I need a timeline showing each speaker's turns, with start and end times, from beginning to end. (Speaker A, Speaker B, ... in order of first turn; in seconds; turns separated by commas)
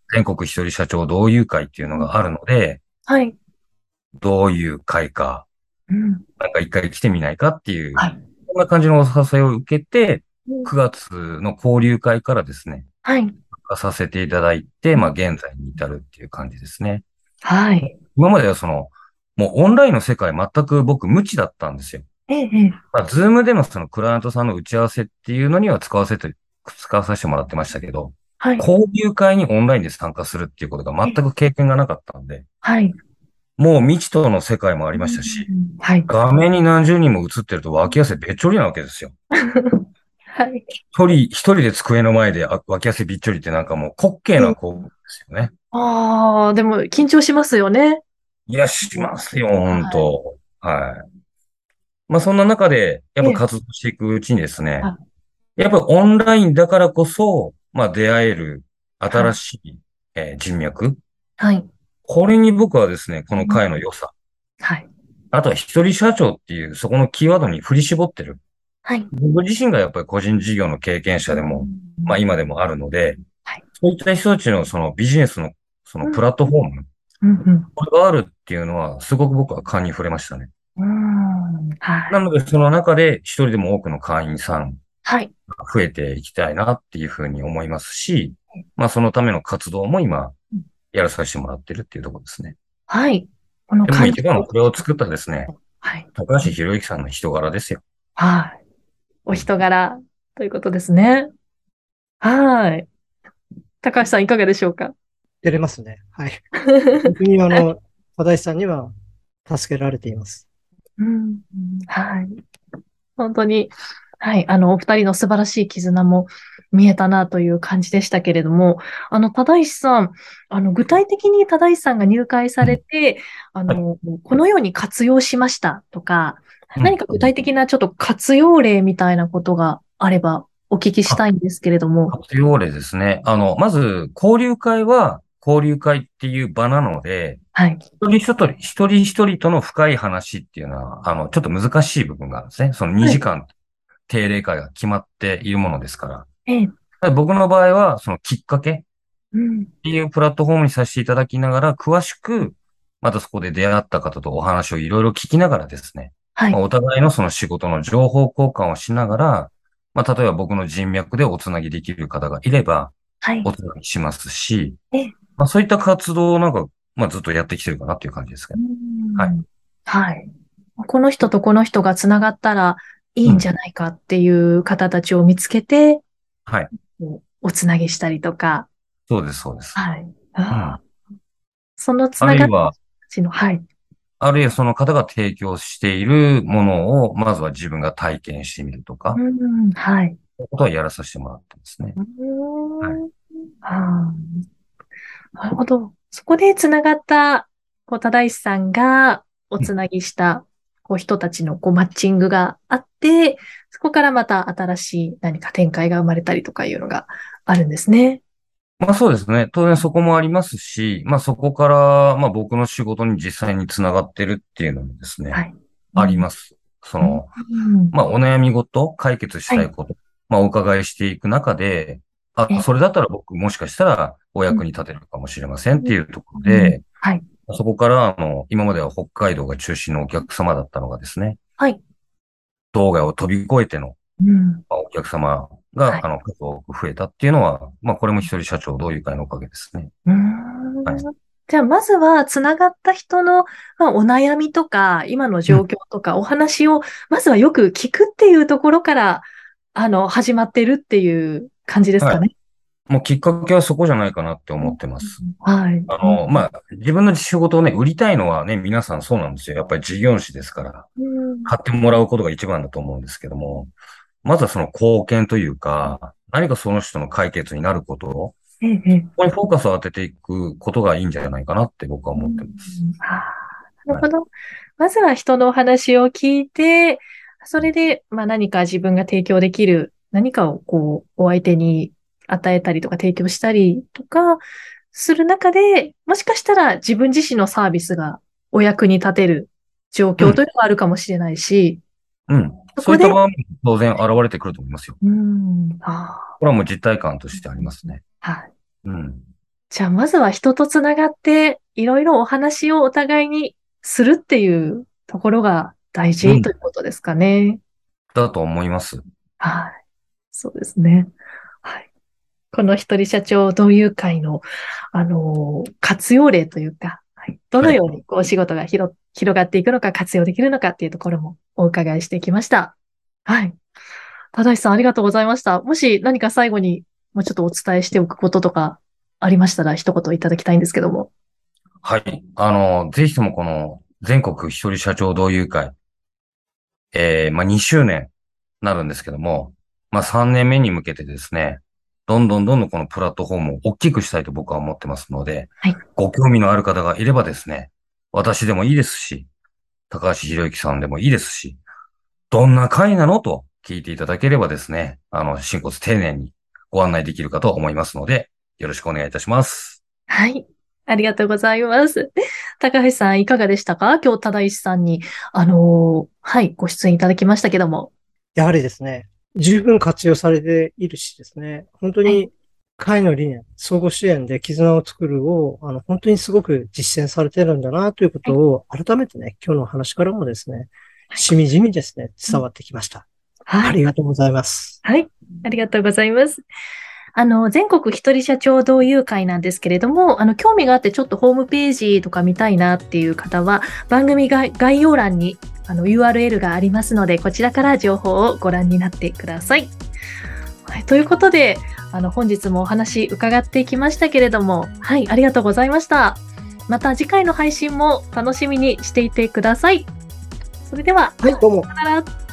Speaker A: 0.1-2.8, Speaker B: 3.0-3.4, Speaker A: 4.2-5.5, Speaker B: 5.9-6.2, Speaker A: 6.4-12.8, Speaker B: 10.5-10.7, Speaker B: 13.0-13.3, Speaker A: 13.5-17.0, Speaker B: 17.4-17.9, Speaker A: 17.9-22.0, Speaker B: 22.3-22.8, Speaker A: 22.9-32.4, Speaker B: 28.4-28.6, Speaker B: 32.6-33.0, Speaker A: 33.6-35.5, Speaker B: 34.9-36.1, Speaker A: 36.1-39.1, Speaker B: 39.5-40.6, Speaker A: 40.9-45.5, Speaker B: 45.7-48.0, Speaker A: 48.5-51.0, Speaker B: 49.7-50.1, Speaker A: 52.1-54.9, Speaker A: 55.6-61.0, Speaker B: 59.1-59.4, Speaker B: 61.4-61.7, Speaker A: 62.0-64.1, Speaker B: 64.6-64.9, Speaker A: 65.3-68.4, Speaker A: 69.1-73.2, Speaker B: 71.3-72.2, Speaker A: 73.8-76.8, Speaker B: 77.2-77.7, Speaker A: 77.8-80.5, Speaker B: 80.8-82.2, Speaker A: 82.1-84.8, Speaker B: 85.0-85.3, Speaker A: 85.5-90.3, Speaker A: 90.9-92.5, Speaker B: 92.9-94.8, Speaker A: 93.9-95.5, Speaker B: 95.8-96.1, Speaker A: 96.2-97.8, Speaker B: 98.2-98.6, Speaker B: 99.2-101.3, Speaker B: 102.2-102.9, Speaker B: 103.8-104.9, Speaker C: 105.4-106.4, Speaker B: 106.6-107.6, Speaker C: 107.0-108.9, Speaker C: 109.5-110.5, Speaker B: 111.0-112.4, Speaker B: 113.2-132.2, Speaker A: 126.8-127.3, Speaker A: 132.1-137.4, Speaker B: 137.5-137.8, Speaker A: 138.0-143.5, Speaker A: 144.1-146.3, Speaker B: 146.5-146.7, Speaker A: 147.0-148.8, Speaker B: 149.3-149.7, Speaker A: 149.8-164.8, Speaker B: 163.2-163.5, Speaker A: 165.4-168.6, Speaker B: 168.5-176.0, Speaker B: 176.9-178.7, Speaker A: 179.1-179.8, Speaker B: 179.8-180.8, Speaker A: 180.5-180.8, Speaker B: 181.8-183.6, Speaker A: 182.2-182.7, Speaker A: 184.2-189.2, Speaker B: 189.1-190.2, Speaker A: 190.4-192.0, Speaker B: 192.0-194.4, Speaker B: 195.3-208.2, Speaker A: 208.8-215.4, Speaker B: 215.3-216.3, Speaker A: 215.9-217.3, Speaker B: 217.0-217.9, Speaker A: 217.9-226.8, Speaker B: 225.8-227.2, Speaker A: 227.5-231.4, Speaker A: 232.7-233.9, Speaker B: 234.2-234.6, Speaker A: 234.7-239.9, Speaker B: 240.1-252.3, Speaker A: 252.9-255.2, Speaker B: 254.6-256.4, Speaker A: 255.9-260.9, Speaker B: 261.0-261.5, Speaker A: 261.4-263.7, Speaker A: 264.2-268.4, Speaker B: 268.6-269.1, Speaker A: 269.2-272.6, Speaker B: 272.1-291.8, Speaker A: 292.3-295.0, Speaker B: 292.8-293.2, Speaker B: 295.0-296.4, Speaker A: 296.4-298.0, Speaker B: 297.6-298.5, Speaker A: 298.8-299.2, Speaker B: 299.7-307.6, Speaker A: 306.2-306.5, Speaker A: 308.1-309.0, Speaker B: 309.4-309.7, Speaker B: 310.3-311.1, Speaker B: 312.5-322.7, Speaker B: 323.2-323.6, Speaker B: 324.3-331.1, Speaker A: 331.8-335.7, Speaker A: 336.9-349.3, Speaker A: 349.9-351.6, Speaker A: 352.3-359.8, Speaker B: 360.1-367.9, Speaker C: 368.3-383.1, Speaker B: 383.5-383.8, Speaker C: 383.6-384.8, Speaker B: 384.8-386.4, Speaker B: 387.1-399.7, Speaker B: 400.6-409.9, Speaker B: 410.6-412.1, Speaker C: 411.2-411.7